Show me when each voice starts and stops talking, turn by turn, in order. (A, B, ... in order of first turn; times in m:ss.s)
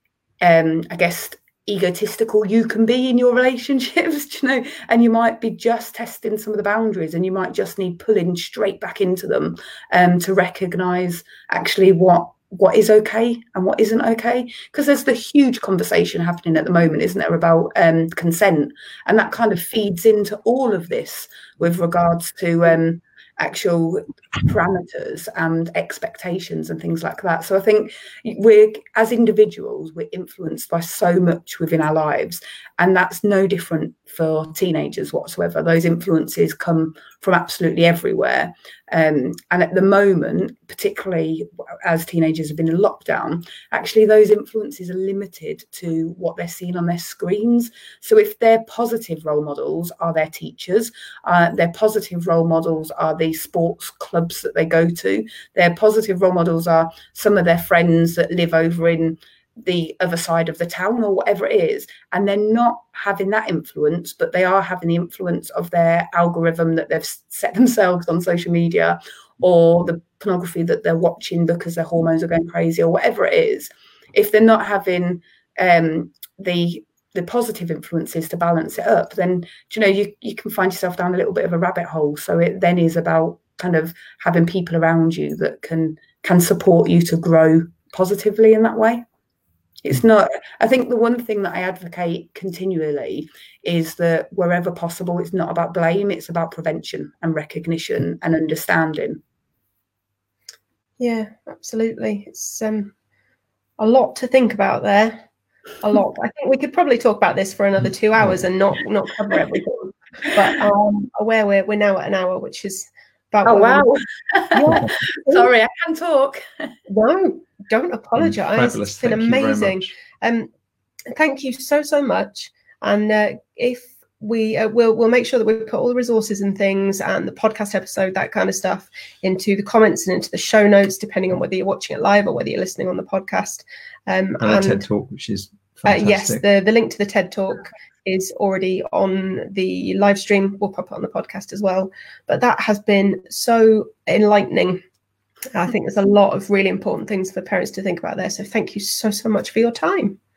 0:00.4-1:29.0 A
1:29.8-1:39.2 A
1:41.0-1:42.9 B
1:43.8-1:45.2 B
1:45.8-1:55.5 B
1:53.4-1:56.7 A
1:56.9-2:00.5 B
1:58.2-1:59.9 C
2:01.1-2:14.8 B
2:14.4-2:16.4 C
2:15.8-2:24.8 B
2:25.5-2:30.2 B